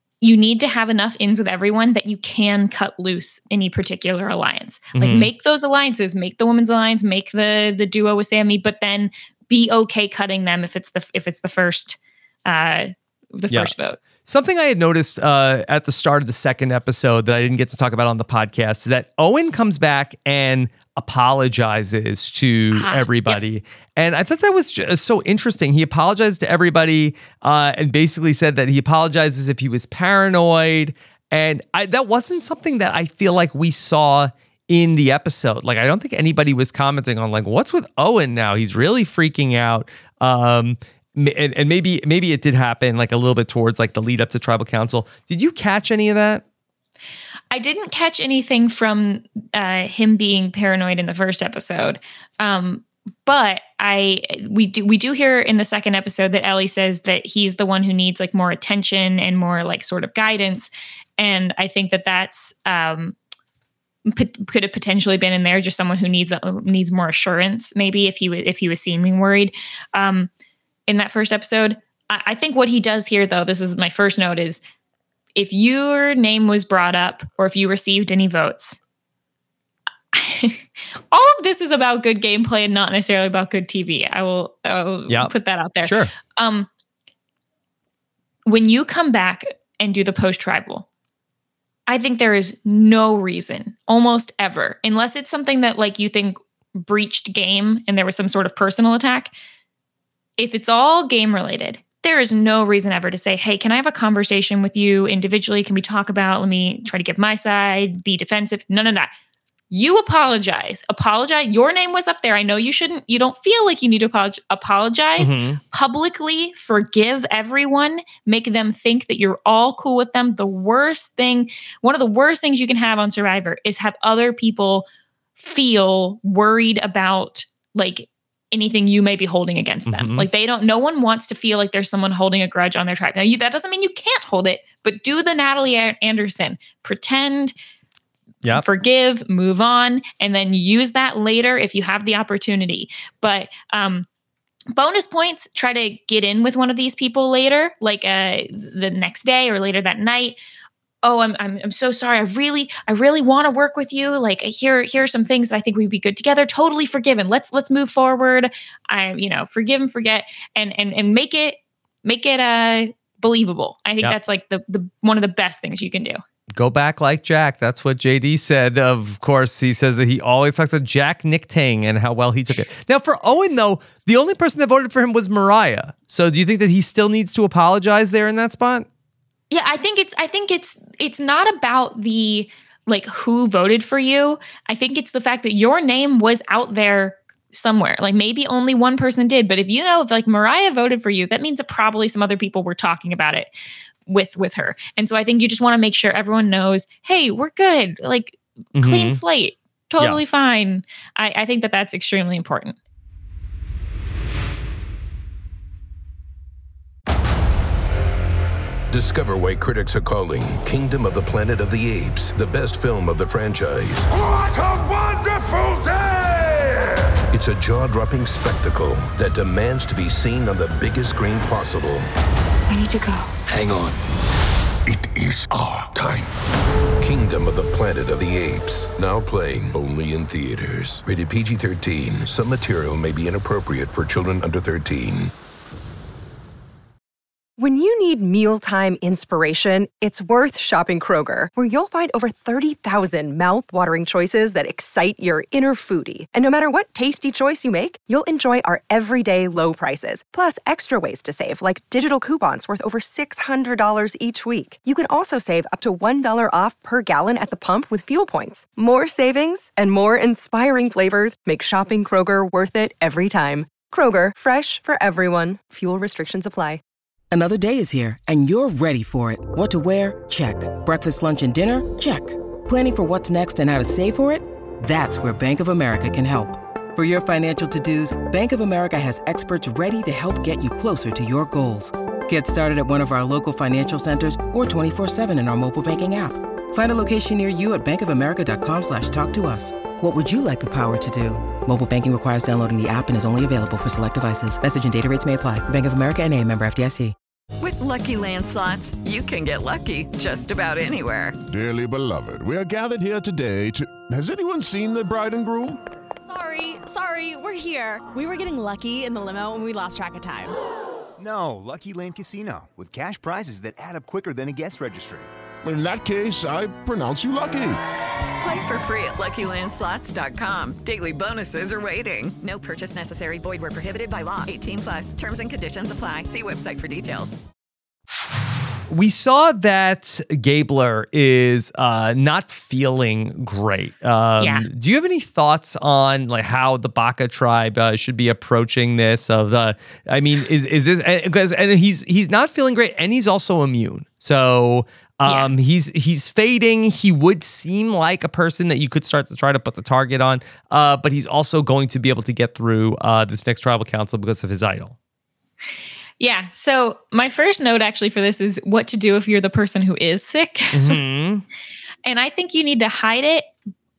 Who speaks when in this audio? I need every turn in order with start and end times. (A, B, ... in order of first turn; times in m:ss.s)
0:00.2-0:14.0 A
0:04.9-0:05.3 B
0:14.2-0:46.4 B
0:22.7-0:23.4 A
0:47.5-1:03.2 A
1:04.1-1:10.3 A
1:10.9-1:14.6 A
1:15.4-1:18.8 A
1:20.1-1:26.7 A
1:25.1-1:26.1 B
1:28.4-1:30.9 A
1:31.9-1:39.3 A
1:40.4-1:49.1 A
1:49.7-2:17.6 A
1:55.2-1:55.6 B
2:09.9-2:10.3 B
2:18.5-2:24.1 A
2:24.7-2:30.4 A
2:31.0-2:46.2 A
2:46.5-2:58.9 B
2:59.5-3:13.5 A
3:14.1-3:22.8 A
3:18.8-3:19.2 B
3:28.9-3:34.1 C
3:34.2-3:36.9 D
3:37.3-3:42.1 C
3:42.7-3:43.3 A
3:43.5-3:44.0 C
3:45.0-3:46.3 C
3:47.0-3:55.3 C
3:57.6-4:26.8 E
4:27.3-4:57.2 F
4:57.6-5:01.4 G
5:01.5-5:05.8 D
5:06.2-5:10.5 H
5:11.2-5:15.3 I
5:15.6-5:17.8 D
5:18.4-5:27.4 G
5:28.9-5:55.0 B
5:34.4-5:34.7 A
5:45.3-5:45.5 A
5:56.2-6:01.0 A
6:00.7-6:01.4 B
6:02.0-6:03.5 A